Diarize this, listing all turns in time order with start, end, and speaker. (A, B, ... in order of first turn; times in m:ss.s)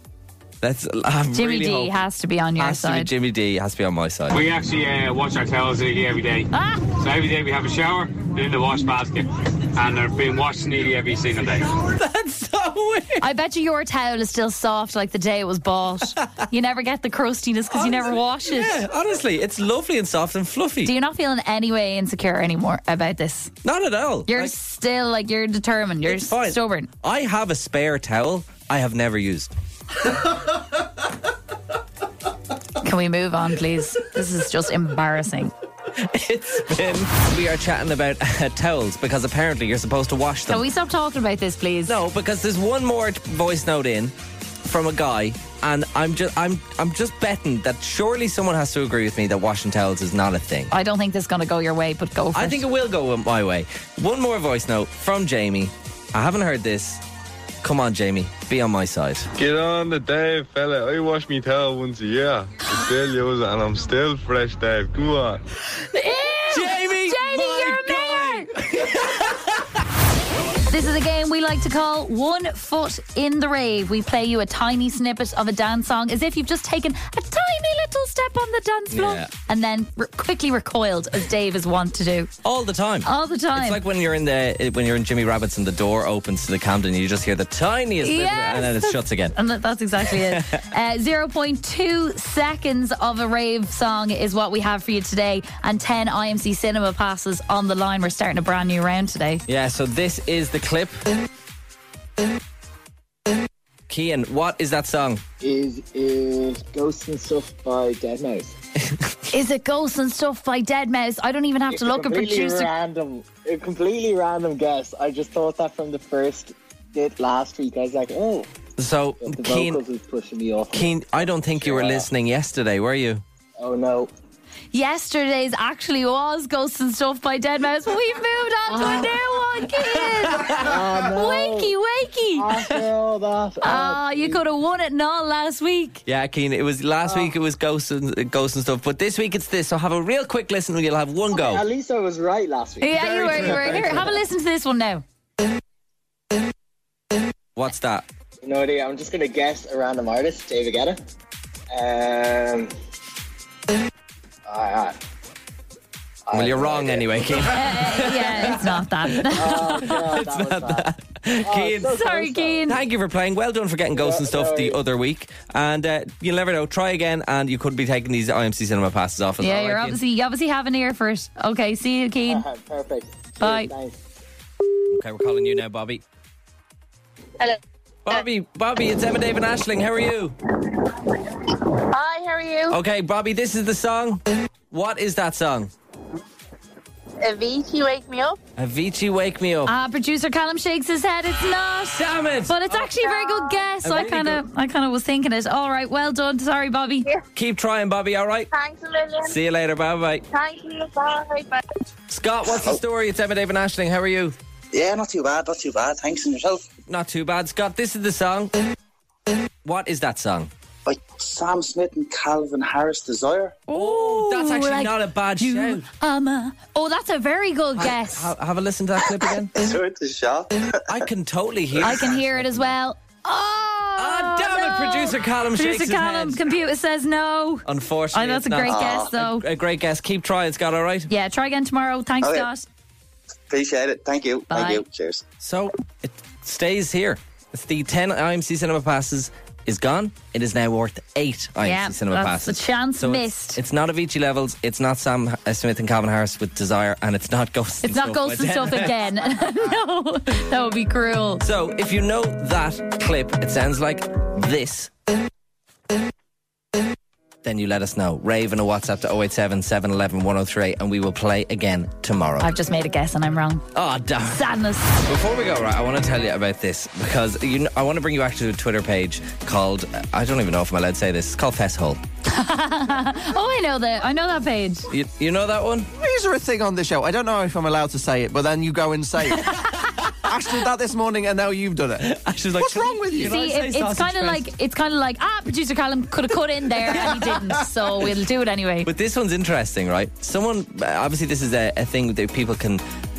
0:00.6-0:02.0 A
0:01.3-0:03.1 B
0:02.6-0:04.4 A
0:04.3-0:11.7 C
0:06.5-0:06.9 B
0:11.8-0:13.2 A
0:13.2-0:18.8 B
0:17.8-0:20.9 A
0:20.8-0:23.5 B
0:23.6-0:24.5 A
0:24.3-0:26.9 B
0:26.1-0:29.5 A
0:32.8-0:35.5 B
0:36.0-0:40.6 A
0:40.5-0:42.0 B
0:41.8-0:44.1 A
0:44.6-0:50.7 A
0:50.7-0:52.6 B
0:52.4-0:57.0 A
0:57.6-0:59.3 A
0:59.4-1:05.4 D
1:05.9-1:08.5 B
1:06.5-1:09.7 A
1:10.7-1:22.3 B
1:18.9-1:19.3 A
1:22.4-1:29.4 A
1:23.0-1:23.8 B
1:28.0-1:39.4 B
1:30.1-1:30.6 A
1:39.5-1:41.0 A
1:43.9-1:45.2 A
1:45.4-1:48.6 E
1:49.3-1:52.7 B
1:51.7-1:58.5 E
1:58.8-1:59.8 A
1:59.2-2:02.1 E
2:00.7-2:03.2 A
2:03.6-2:04.1 E
2:04.7-2:12.6 B
2:08.7-2:09.3 E
2:10.6-2:11.7 E
2:12.4-2:14.4 E
2:13.6-2:16.0 B
2:16.1-2:21.6 A
2:17.0-2:17.3 E
2:21.3-2:24.2 E
2:22.8-2:25.0 B
2:23.4-2:24.0 A
2:27.6-2:28.1 A
2:28.4-2:31.0 E
2:31.7-2:32.7 E
2:34.5-2:35.0 E
2:36.3-2:37.5 E
2:36.3-2:38.6 A
2:37.4-2:40.1 B
2:39.3-2:40.9 E
2:39.8-2:42.0 A
2:41.4-2:42.7 E
2:41.9-2:42.8 B
2:42.7-2:50.0 A
2:43.9-2:44.8 E
2:49.4-2:52.4 B
2:52.3-2:54.0 E
2:53.4-2:53.7 B
2:54.9-2:56.0 A
2:58.1-3:00.4 A
3:01.9-3:02.8 F
3:02.7-3:05.7 A
3:07.2-3:08.4 F
3:08.6-3:09.7 A
3:09.7-3:17.1 B
3:12.0-3:12.8 A
3:13.0-3:13.6 F
3:13.8-3:14.4 A
3:17.4-3:18.5 A
3:18.5-3:19.4 F
3:19.2-3:20.2 A
3:20.3-3:21.6 F
3:22.1-3:24.4 A
3:22.5-3:22.8 G
3:24.7-3:26.6 G
3:26.9-3:28.5 A
3:29.6-3:30.5 A
3:30.9-3:33.6 G
3:33.7-3:38.3 B
3:33.7-3:35.8 A
3:37.8-3:39.6 A
3:39.5-3:41.0 G
3:40.9-3:42.7 A
3:41.8-3:49.4 B
3:44.0-3:46.4 A
3:47.7-3:51.1 A
3:48.7-3:49.1 G
3:51.1-3:52.6 B
3:52.2-3:52.5 G
3:53.5-3:55.2 G
3:54.5-3:54.8 B
3:55.4-4:09.3 A
4:01.6-4:03.6 B
4:07.8-4:11.4 B
4:11.4-4:14.9 A
4:17.4-4:22.5 A
4:22.4-4:23.7 B
4:23.7-4:24.4 A
4:24.3-4:25.0 B
4:25.0-4:32.0 A
4:32.3-4:34.9 B
4:34.9-4:35.9 A
4:35.9-4:39.7 H
4:40.2-4:43.3 H
4:42.0-4:44.4 A
4:43.2-4:48.9 B
4:46.9-4:47.6 A
4:48.8-4:52.8 A